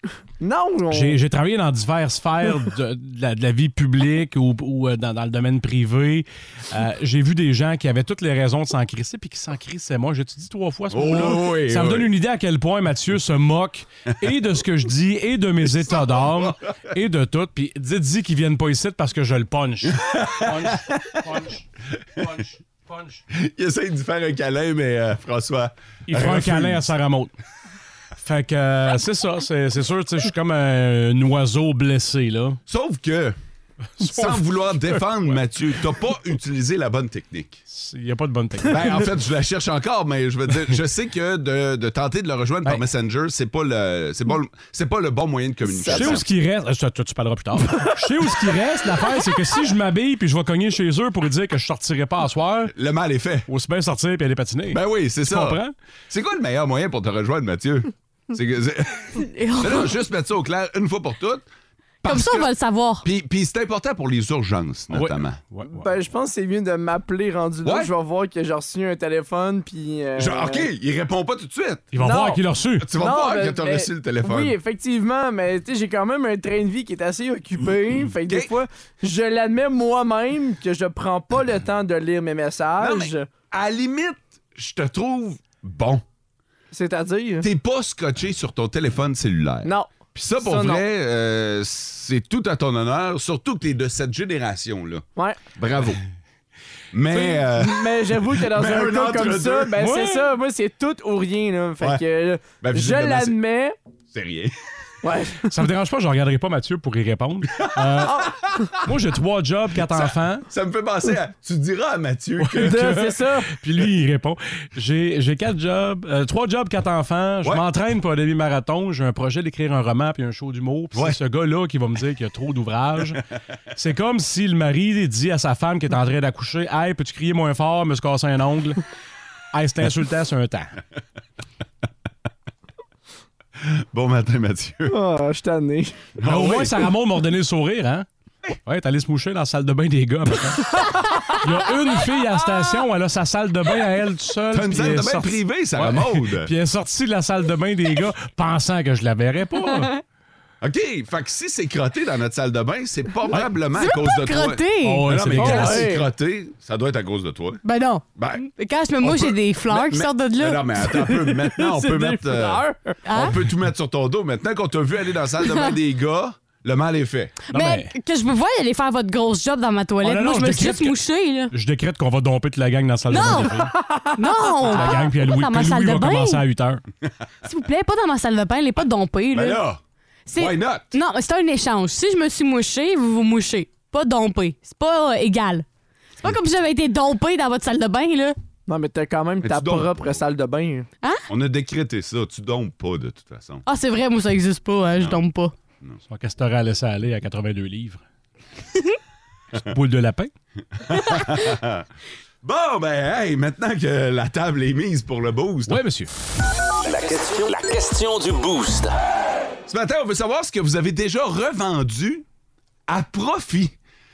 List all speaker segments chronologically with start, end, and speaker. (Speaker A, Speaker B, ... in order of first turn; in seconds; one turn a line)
Speaker A: 0.4-1.2
Speaker B: 0.9-23.2
Speaker C: 10.9-12.1
Speaker C: 19.9-21.2
Speaker C: 23.3-26.9
Speaker B: 26.1-27.3
Speaker B: 28.2-32.6
Speaker C: 32.7-33.4
Speaker B: 34.0-35.0
Speaker C: 34.0-37.6
Speaker B: 37.7-39.0
Speaker C: 38.7-46.3
Speaker A: 45.6-46.2
Speaker B: 45.9-52.7
Speaker C: 52.7-53.5
Speaker B: 53.5-55.7
Speaker C: 54.7-61.5
Speaker D: 59.2-59.9
Speaker C: 62.0-62.5
Speaker D: 62.0-63.0
Speaker C: 63.0-65.4
Speaker B: 64.9-65.9
Speaker A: 65.7-70.7
Speaker C: 67.7-67.9
Speaker C: 70.2-71.9
Speaker B: 71.9-72.9
Speaker A: 72.0-72.4
Speaker C: 72.8-74.5
Speaker A: 73.0-83.3
Speaker C: 78.2-78.5
Speaker C: 82.8-86.0
Speaker A: 86.7-87.5
Speaker C: 87.4-96.0
Speaker A: 89.6-90.8
Speaker A: 95.2-95.4
Speaker C: 96.9-99.8
Speaker A: 97.1-103.8
Speaker B: 99.8-100.3
Speaker C: 102.6-103.4
Speaker C: 104.1-104.5
Speaker A: 105.0-105.5
Speaker B: 105.4-110.5
Speaker C: 108.1-108.7
Speaker C: 109.8-112.8
Speaker B: 112.4-123.2
Speaker A: 112.6-113.5
Speaker B: 123.7-128.8
Speaker B: 129.5-130.7
Speaker C: 133.6-135.0
Speaker A: 134.9-136.0
Speaker C: 136.2-136.8
Speaker B: 136.2-138.1
Speaker B: 138.6-140.8
Speaker B: 141.3-149.9
Speaker C: 144.5-146.5
Speaker C: 150.6-157.6
Speaker D: 153.7-155.1
Speaker B: 154.8-155.9
Speaker A: 155.4-156.1
Speaker D: 157.6-160.8
Speaker C: 158.2-158.4
Speaker C: 159.0-167.3
Speaker A: 161.2-163.0
Speaker D: 163.1-163.4
Speaker B: 167.5-167.9
Speaker D: 167.5-171.5
Speaker B: 170.0-170.9
Speaker B: 171.5-173.7
Speaker D: 173.1-173.5
Speaker A: 173.7-174.9
Speaker D: 174.2-176.4
Speaker B: 174.6-176.8
Speaker D: 177.4-179.6
Speaker C: 179.3-179.8
Speaker D: 180.3-185.7
Speaker C: 180.4-180.9
Speaker D: 186.2-188.4
Speaker A: 188.7-190.9
Speaker C: 189.4-190.2
Speaker C: 191.3-193.6
Speaker D: 193.7-195.5
Speaker B: 196.1-198.0
Speaker B: 199.6-200.3
Speaker C: 200.8-201.8
Speaker C: 202.4-205.8
Speaker B: 205.7-206.1
Speaker E: 206.8-209.0
Speaker C: 209.7-212.2
Speaker C: 212.9-213.7